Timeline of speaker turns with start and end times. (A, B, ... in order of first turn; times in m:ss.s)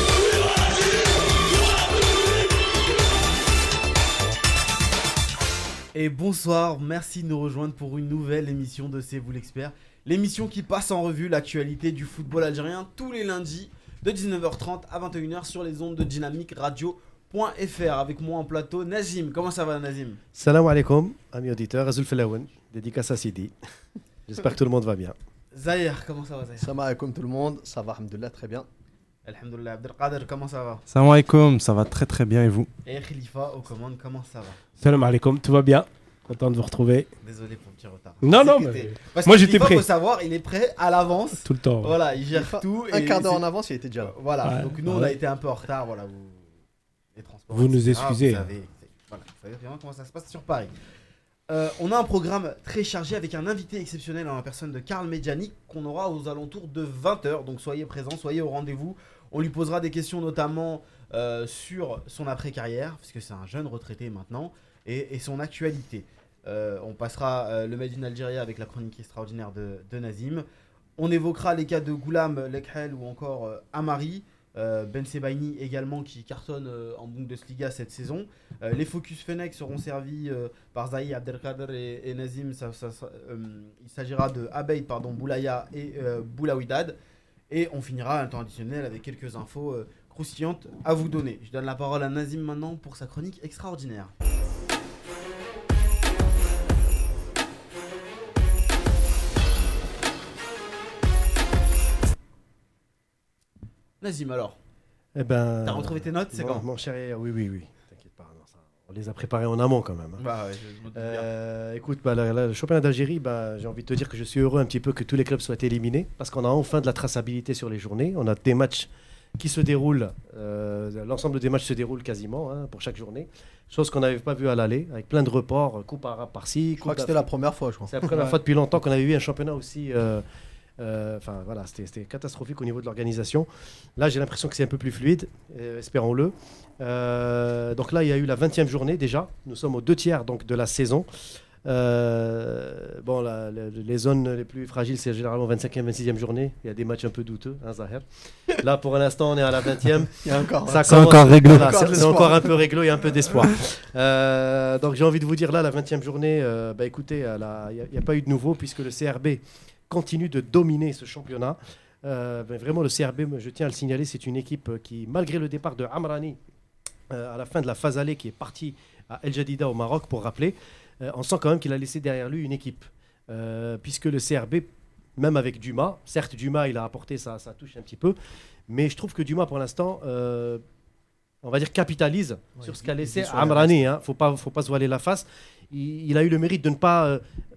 0:05.9-0:20.2 A
0:20.3-0:23.5 B
0:24.3-0:25.2 B
0:25.5-0:26.7 A
0:26.6-0:28.7 C
0:29.2-0:30.8 A
0:30.9-0:32.7 D
0:32.9-0:34.6 A
0:34.8-0:37.1 E
0:37.2-0:43.4 A
0:38.2-0:39.8 E
0:41.4-0:41.9 E
0:42.3-0:44.1 C
0:44.0-0:46.5 A
0:44.4-0:45.2 E
0:47.2-0:50.7 A
0:47.5-0:48.5 E
0:51.5-1:10.4 A
1:11.0-1:27.0 A
1:27.5-1:34.1 A
1:44.0-1:44.6 A
1:45.2-1:50.3 B
1:45.6-1:46.6 A
1:50.2-1:51.3 A
1:51.0-2:07.3 B
2:06.8-2:08.4 C
2:07.9-2:10.2 B
2:10.8-2:21.1 B
2:21.6-2:46.4 B
2:30.2-2:32.5 C
2:30.8-2:32.0 D
2:47.1-2:58.2 B
2:58.7-3:00.6 B
3:01.4-3:07.2 B
3:02.6-3:03.8 C